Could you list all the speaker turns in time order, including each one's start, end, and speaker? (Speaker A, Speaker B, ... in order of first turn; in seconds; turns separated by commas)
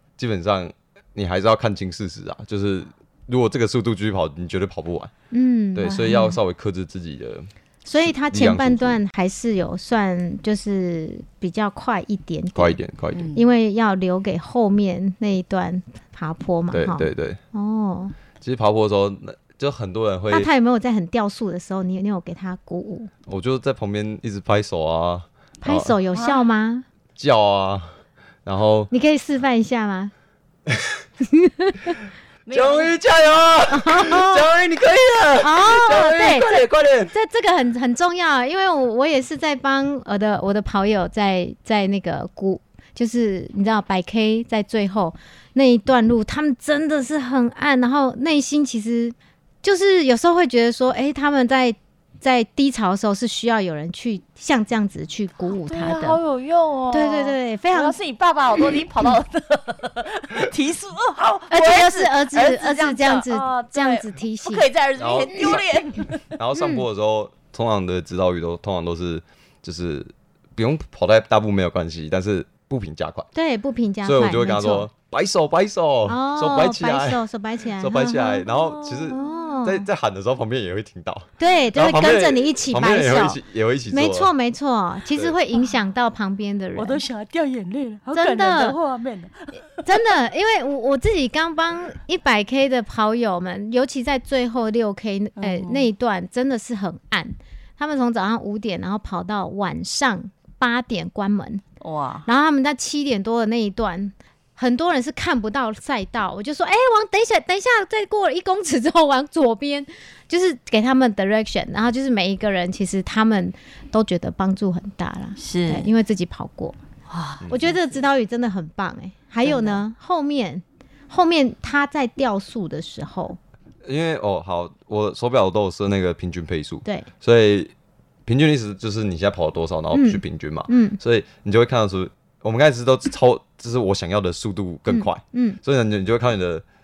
Speaker A: 0.2-5.1, Speaker B: 5.3-6.2, Speaker A: 5.8-9.0, Speaker C: 5.9-6.3, Speaker B: 7.8-12.8, Speaker A: 12.6-13.3, Speaker C: 13.1-13.4, Speaker B: 13.3-18.1, Speaker A: 16.7-17.4, Speaker A: 18.4-20.5, Speaker B: 20.3-23.1, Speaker A: 23.3-25.9, Speaker B: 25.6-26.9, Speaker C: 26.1-26.4, Speaker A: 27.2-27.9, Speaker A: 28.4-28.9, Speaker B: 28.9-30.1, Speaker A: 30.7-31.0, Speaker B: 31.2-32.0, Speaker C: 32.5-33.0, Speaker A: 32.5-37.1, Speaker B: 33.7-34.5, Speaker B: 35.4-36.6, Speaker B: 37.1-56.2, Speaker C: 55.5-66.2, Speaker B: 56.9-58.0, Speaker B: 61.5-64.7, Speaker A: 65.0-73.3, Speaker B: 66.6-66.8, Speaker B: 73.3-74.9, Speaker A: 74.0-77.2, Speaker B: 76.1-78.5, Speaker A: 77.8-84.3, Speaker C: 78.5-79.4, Speaker B: 79.1-79.9, Speaker B: 81.4-83.4, Speaker B: 83.9-87.0, Speaker C: 86.8-89.9, Speaker B: 88.1-88.8, Speaker B: 89.8-101.6, Speaker C: 95.4-95.9, Speaker C: 101.8-102.3, Speaker B: 102.3-116.8, Speaker C: 115.4-115.9, Speaker C: 117.1-117.5, Speaker B: 117.5-123.4, Speaker C: 119.4-119.8, Speaker A: 123.8-127.7, Speaker A: 128.3-136.6, Speaker B: 129.9-131.0, Speaker B: 134.9-135.6